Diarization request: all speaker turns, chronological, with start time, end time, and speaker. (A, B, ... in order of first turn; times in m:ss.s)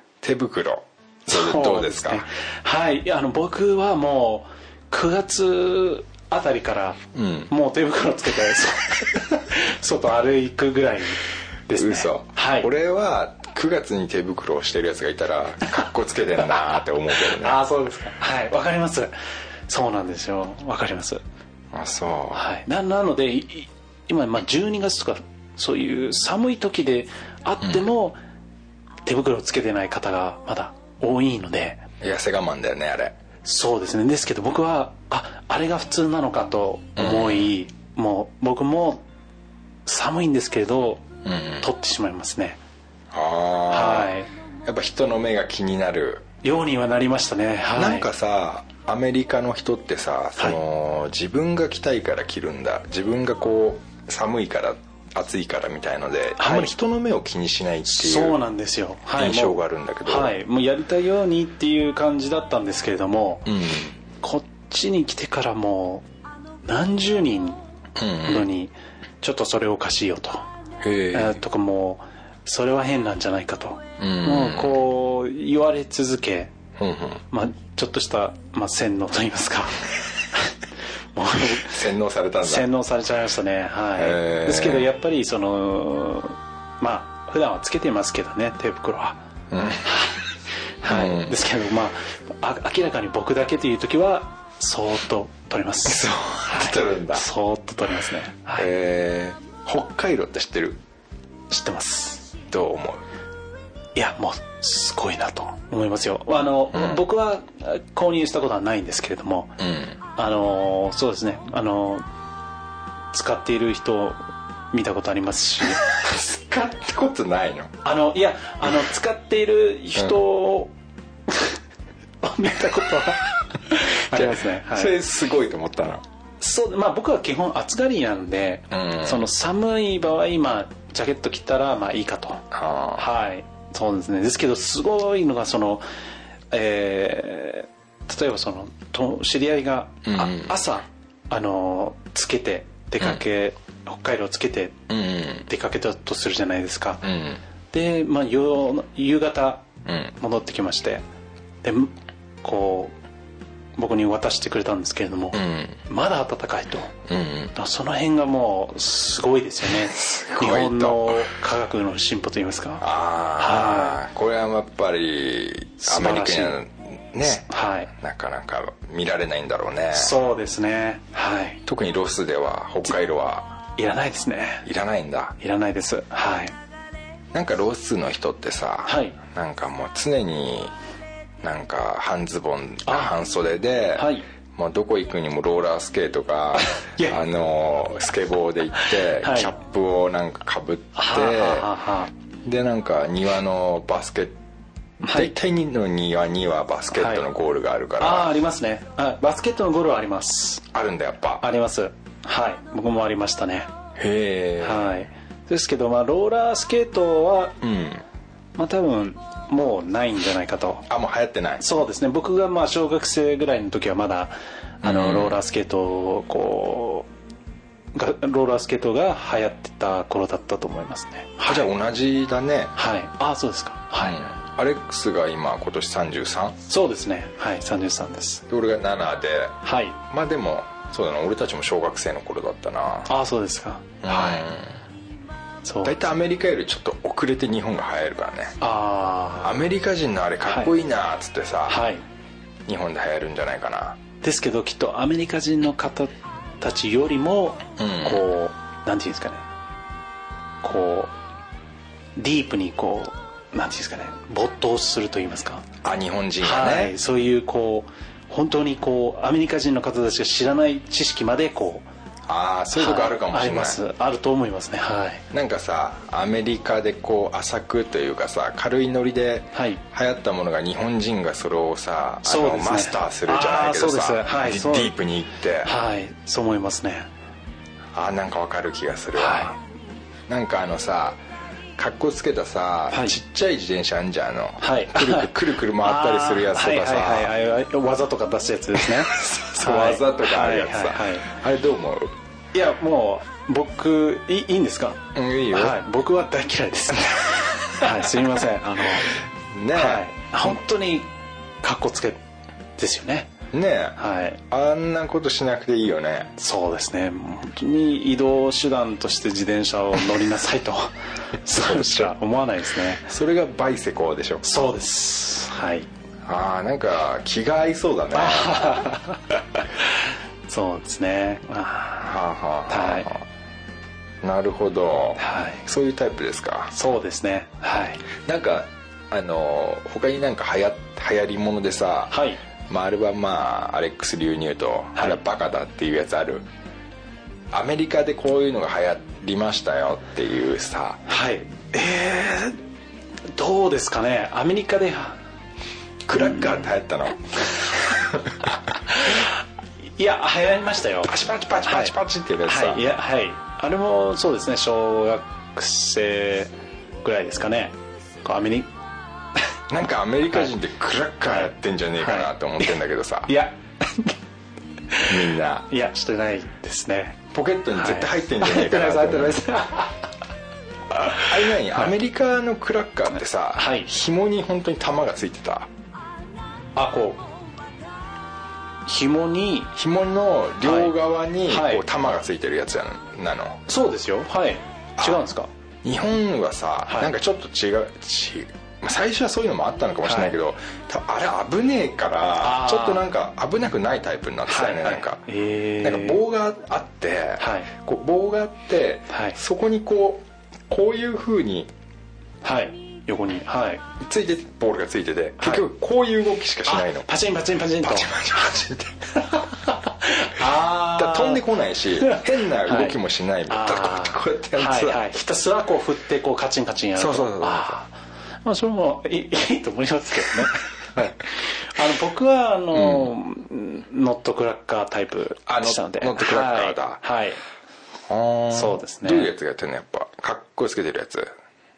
0:00.2-0:02.3 A
0:01.3-0:07.0 B
0:07.1-0:07.5 A
0:07.5-0:12.7 B
0:11.7-0:17.6 A
0:17.2-0:19.1 B
0:19.7-0:21.2 B
0:21.7-0:22.4 A
0:22.3-0:28.2 B
0:29.0-0:31.8 B
0:32.0-0:33.2 A
0:33.4-0:39.0 B
0:37.0-0:37.5 A
0:39.8-0:41.1 B
0:41.2-0:41.7 A
0:41.6-0:42.6 B
0:43.1-0:46.2 A
0:43.7-0:44.3 B
0:46.4-0:48.1 B
0:47.7-0:58.4 A
0:56.4-0:56.7 B
0:57.8-1:03.5 B
0:59.2-1:00.3 A
1:03.5-1:04.0 A
1:04.2-1:06.1 B
1:06.6-1:07.6 B
1:08.0-1:08.5 A
1:08.2-1:10.5 B
1:10.8-1:11.4 A
1:11.1-1:16.5 B
1:14.0-1:14.8 A
1:16.8-1:17.2 A
1:17.3-1:20.5 B
1:21.1-1:21.8 B
1:21.6-1:22.7 A
1:22.4-1:29.2 B
1:24.0-1:24.9 A
1:29.5-1:29.9 A
1:29.8-1:30.2 B
1:30.8-1:38.7 B
1:30.8-1:31.3 A
1:35.8-1:37.3 A
1:38.6-1:40.8 A
1:41.5-1:42.3 B
1:42.4-1:43.0 A
1:43.9-1:49.6 B
1:46.7-1:47.0 A
1:49.6-1:50.0 A
1:50.1-1:52.0 B
1:53.1-1:55.8 B
1:55.7-1:57.7 A
1:57.8-2:00.7 B
2:01.3-2:01.6 B
2:02.2-2:05.0 B
2:03.8-2:06.0 A
2:06.4-2:15.8 B
2:08.7-2:09.3 A
2:12.5-2:13.0 A
2:16.5-2:24.9 B
2:20.0-2:20.5 A
2:24.9-2:25.5 A
2:25.4-2:27.1 B
2:27.0-2:27.4 A
2:27.7-2:31.0 B
2:29.8-2:30.1 A
2:31.6-2:32.9 B
2:33.8-2:36.9 B
2:35.3-2:35.8 A
2:37.1-2:37.5 A
2:37.5-2:44.0 B
2:39.8-2:41.3 A
2:42.8-2:50.2 A
2:45.8-2:46.6 B
2:47.4-2:47.9 B
2:49.9-2:51.6 B
2:51.6-2:53.6 A
2:53.8-2:54.6 B
2:54.6-2:55.4 A
2:55.4-2:56.5 B
2:57.3-3:00.7 A
2:58.8-2:59.2 B
3:01.4-3:11.7 A
3:02.8-3:03.1 B
3:03.9-3:04.2 B
3:06.6-3:07.2 B
3:08.9-3:09.5 B
3:10.9-3:12.1 B
3:12.4-3:14.4 A
3:15.0-3:15.3 B
3:15.1-3:18.3 A
3:16.9-3:17.2 B
3:18.0-3:20.7 B
3:20.7-3:21.4 A
3:21.4-3:23.7 B
3:24.0-3:25.0 A
3:24.6-3:27.6 B
3:27.6-3:28.0 A
3:28.6-3:30.9 B
3:30.9-3:31.6 A
3:31.6-3:37.1 B
3:34.8-3:35.4 A
3:37.9-3:41.7 B
3:41.4-3:42.7 A
3:42.7-3:44.2 B
3:44.0-3:46.6 A
3:46.7-3:48.4 B
3:48.5-3:53.1 A
3:49.6-3:50.0 B
3:53.1-3:54.5 B
3:54.0-3:54.7 A
3:55.6-3:55.9 B
3:55.8-3:58.6 A
3:58.6-3:59.6 B
3:59.4-4:01.8 A
4:00.4-4:00.7 B
4:01.7-4:02.0 B
4:02.6-4:04.0 A
4:04.2-4:09.4 B
4:07.8-4:08.2 A
4:10.6-4:11.1 B
4:12.2-4:15.6 B
4:15.8-4:16.9 A
4:16.4-4:21.9 B
4:22.3-4:23.8 A
4:22.7-4:25.2 B
4:25.3-4:35.7 A
4:29.5-4:29.8 B
4:32.2-4:34.9 B
4:35.6-4:37.1 B
4:37.9-4:39.6 A
4:39.2-4:39.6 B
4:40.3-4:41.2 A
4:41.8-4:47.3 A
4:42.9-4:43.2 B
4:44.6-4:51.3 B
4:48.8-4:52.1 A
4:52.5-4:59.2 B
4:55.1-4:55.8 A
4:59.5-5:00.6 A
4:59.7-5:01.1 B
5:01.6-5:02.2 B
5:02.8-5:03.3 B
5:03.5-5:06.3 A
5:04.0-5:04.4 B
5:06.4-5:13.0 B
5:11.5-5:12.1 A
5:12.9-5:14.6 A
5:14.4-5:15.9 B
5:16.2-5:18.7 A
5:18.1-5:22.2 B
5:22.0-5:23.2 A
5:22.7-5:23.1 B
5:24.2-5:26.7 A
5:25.2-5:25.6 B
5:26.7-5:28.0 B
5:28.1-5:32.2 A
5:32.1-5:32.4 B
5:32.7-5:36.5 A
5:37.5-5:41.0 A
5:41.1-5:42.6 B
5:43.3-5:45.2 B
5:46.0-5:48.4 A
5:46.2-5:46.5 B
5:48.9-5:56.5 B
5:51.0-5:52.9 A
5:57.0-5:58.7 B
5:59.7-6:03.3 A
6:01.3-6:02.8 B
6:03.3-6:04.1 B
6:04.9-6:10.0 B
6:05.1-6:05.7 A
6:07.3-6:09.4 A
6:11.1-6:15.7 A
6:11.1-6:11.9 B
6:13.5-6:13.9 B
6:16.7-6:17.2 B
6:18.8-6:19.7 B
6:19.8-6:23.6 A
6:20.6-6:20.9 B
6:21.4-6:21.8 B
6:23.7-6:25.5 B
6:25.0-6:25.3 A
6:25.8-6:35.2 A
6:26.9-6:27.1 B
6:30.0-6:30.3 B
6:32.4-6:33.0 B
6:34.5-6:36.2 B
6:35.8-6:41.7 A
6:37.4-6:37.7 B
6:39.1-6:39.4 B
6:42.4-6:43.9 B
6:44.0-6:47.1 A
6:45.4-6:45.6 B
6:46.6-6:48.2 B
6:47.8-6:49.1 A
6:49.2-6:51.4 B
6:50.5-6:55.1 A
6:52.0-7:07.4 B
6:57.0-6:57.8 A
7:02.7-7:03.1 A
7:05.5-7:07.0 A
7:08.1-7:11.3 A
7:08.5-7:09.3 B